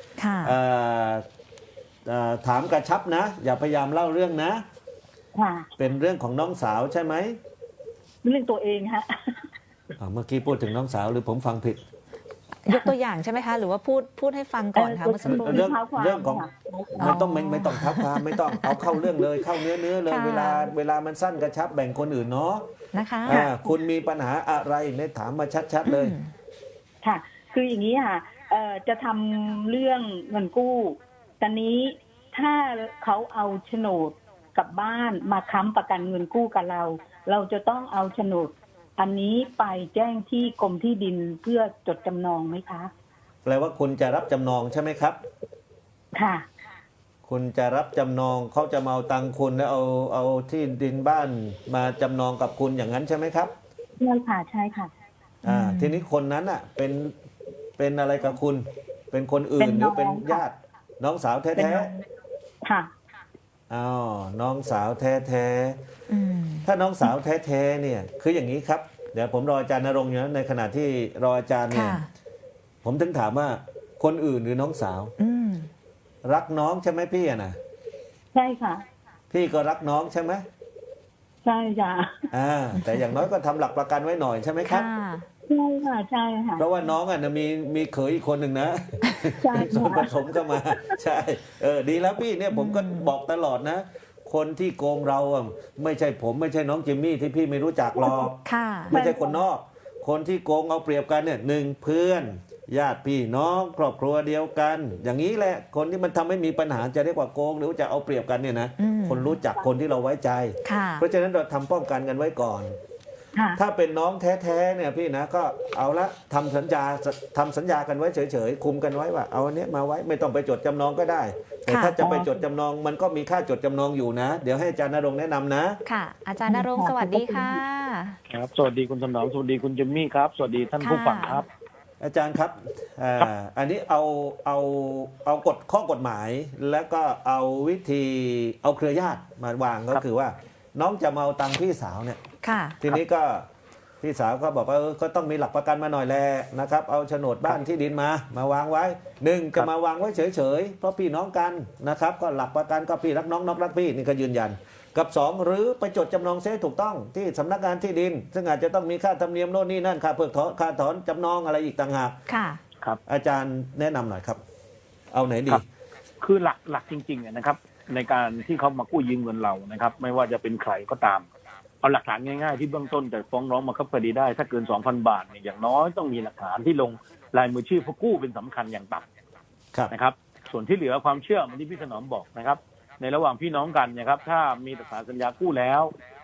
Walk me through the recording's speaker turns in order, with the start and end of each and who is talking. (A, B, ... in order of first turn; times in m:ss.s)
0:00.2-0:00.6 A
0:00.4-0:01.2 B
0:02.0-0:04.6 B
0:05.4-0:05.7 C
0:05.8-0:07.4 B
0:08.2-0:09.5 C
0:10.0-0:11.8 B
0:12.6-0:15.7 A
0:14.8-0:17.2 C
0:15.2-0:16.4 B
0:17.0-0:22.6 B
0:17.0-0:19.0 A
0:20.1-0:20.7 A
0:22.9-0:23.5 A
0:23.2-0:26.1 B
0:25.8-0:26.3 A
0:27.0-0:42.9 C
0:43.4-0:45.2 B
0:46.1-0:46.5 C
0:47.2-0:53.5 B
0:54.0-0:54.9 C
0:55.4-0:56.0 A
0:55.4-0:57.1 B
0:57.8-1:01.9 B
0:59.6-1:00.4 C
1:01.6-1:02.0 C
1:02.6-1:02.9 C
1:03.7-1:05.8 B
1:06.1-1:06.6 A
1:06.6-1:12.0 B
1:11.7-1:12.1 A
1:12.8-1:15.1 B
1:15.2-1:15.7 A
1:16.2-1:17.6 B
1:18.3-1:18.8 C
1:19.3-1:20.4 B
1:21.4-1:22.2 C
1:22.3-1:24.9 B
1:22.8-1:23.2 A
1:24.6-1:25.3 A
1:25.5-1:26.6 C
1:26.6-1:52.7 B
1:29.4-1:30.1 C
1:32.5-1:33.1 A
1:38.0-1:38.3 C
1:38.4-1:38.9 A
1:38.9-1:39.4 C
1:48.8-1:49.4 A
1:50.6-1:51.0 A
1:53.3-1:53.6 C
1:53.6-2:05.8 B
2:01.7-2:02.0 A
2:02.0-2:02.4 C
2:05.8-2:08.2 A
2:06.5-2:07.6 C
2:08.3-2:11.5 D
2:10.8-2:11.4 A
2:12.0-2:22.2 B
2:22.4-2:22.8 A
2:22.8-2:23.4 B
2:24.0-2:42.2 B
2:42.3-2:42.6 A
2:43.1-2:44.4 B
2:45.1-2:45.6 B
2:46.2-2:51.2 D
2:51.8-2:59.0 D
2:59.9-3:05.9 D